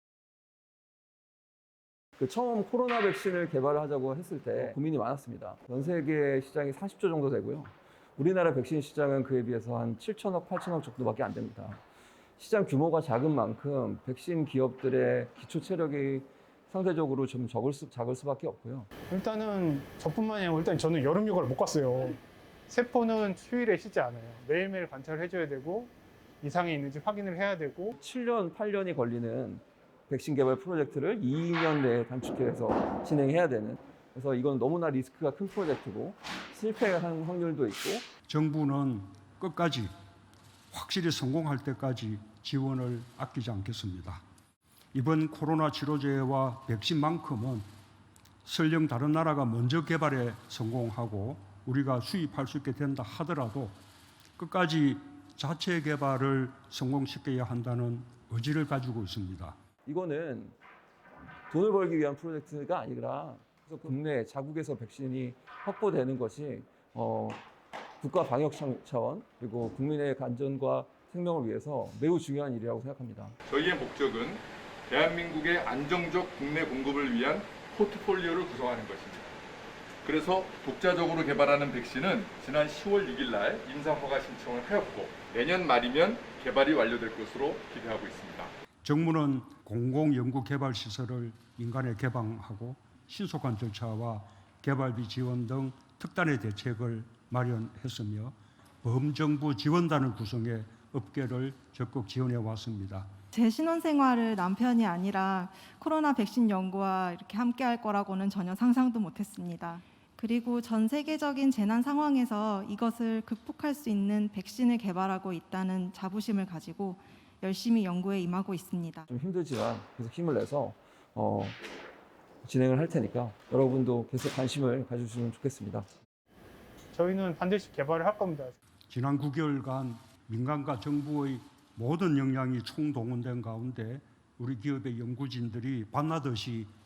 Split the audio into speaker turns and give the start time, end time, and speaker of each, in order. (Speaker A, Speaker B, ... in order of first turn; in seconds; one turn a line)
Speaker A: 2.2-11.8
Speaker A: 12.4-18.9
Speaker B: 19.1-22.2
Speaker B: 22.7-27.9
Speaker A: 27.9-38.0
Speaker C: 38.2-39.9
Speaker C: 40.7-44.2
Speaker C: 44.9-47.7
Speaker C: 48.4-53.8
Speaker C: 54.4-59.6
Speaker A: 59.9-60.5
Speaker A: 61.5-67.4
Speaker A: 68.0-73.3
Speaker D: 73.5-79.3
Speaker D: 80.0-88.5
Speaker C: 88.8-103.1
Speaker E: 103.3-119.0
Speaker A: 119.1-121.6
Speaker A: 122.4-125.9
Speaker B: 126.9-128.6
Speaker C: 128.9-136.7